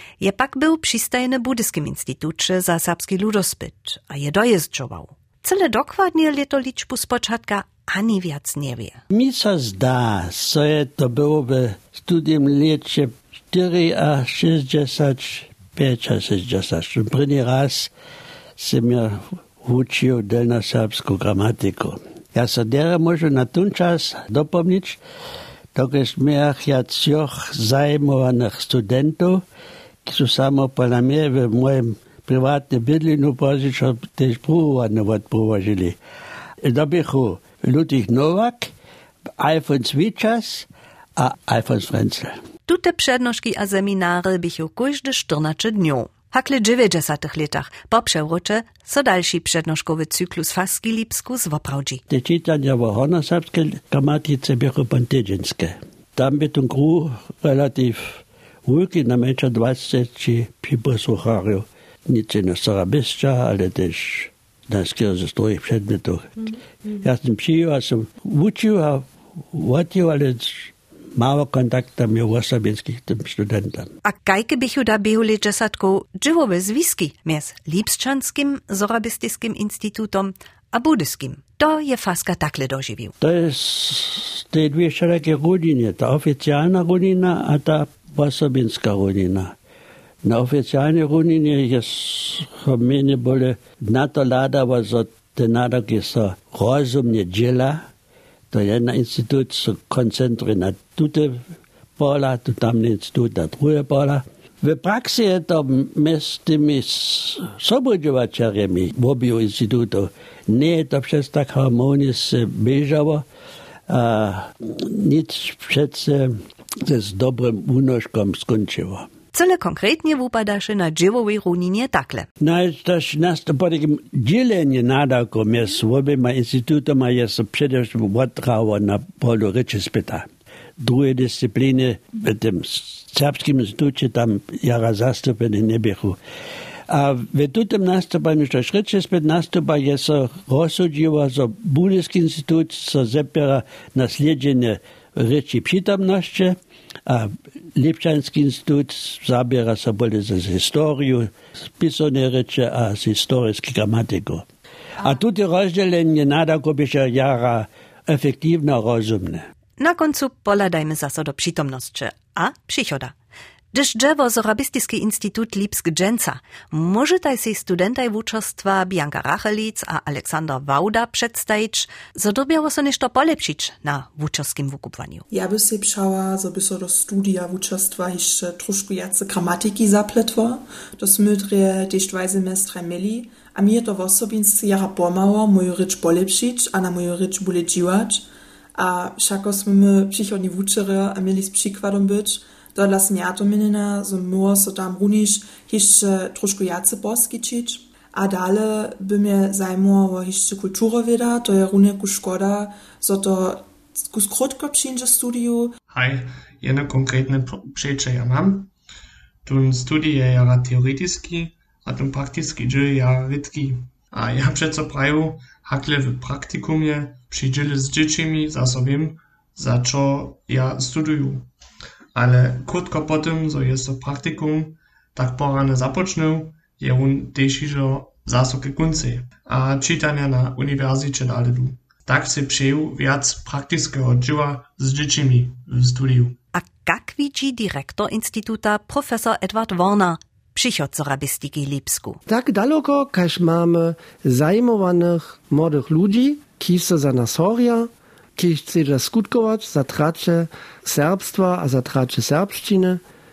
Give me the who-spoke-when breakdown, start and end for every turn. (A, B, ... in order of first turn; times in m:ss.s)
0:00.2-0:09.0 A
0:09.1-0:17.9 B
0:18.6-0:25.0 B
0:25.7-0:29.4 B
0:30.0-0:36.0 B
0:36.6-0:38.7 B
0:39.4-0:42.3 B
0:42.7-0:52.0 A
0:52.1-1:13.9 B
1:14.0-1:23.1 A
1:23.2-1:29.5 B
1:30.2-1:37.8 B
1:38.5-1:41.4 B
1:42.0-1:53.2 B
1:53.9-1:59.1 B
1:59.3-2:02.3 A
2:02.4-2:10.3 B
2:10.8-2:16.2 B
2:16.9-2:34.4 B
2:35.0-2:39.4 B
2:39.8-2:43.1 A
2:43.7-2:55.2 A
2:55.3-3:08.2 C
3:08.8-3:25.7 C
3:25.9-3:28.7 D
3:29.4-3:41.4 D
3:42.1-3:56.4 D
3:56.5-4:02.2 A
4:02.3-4:13.0 E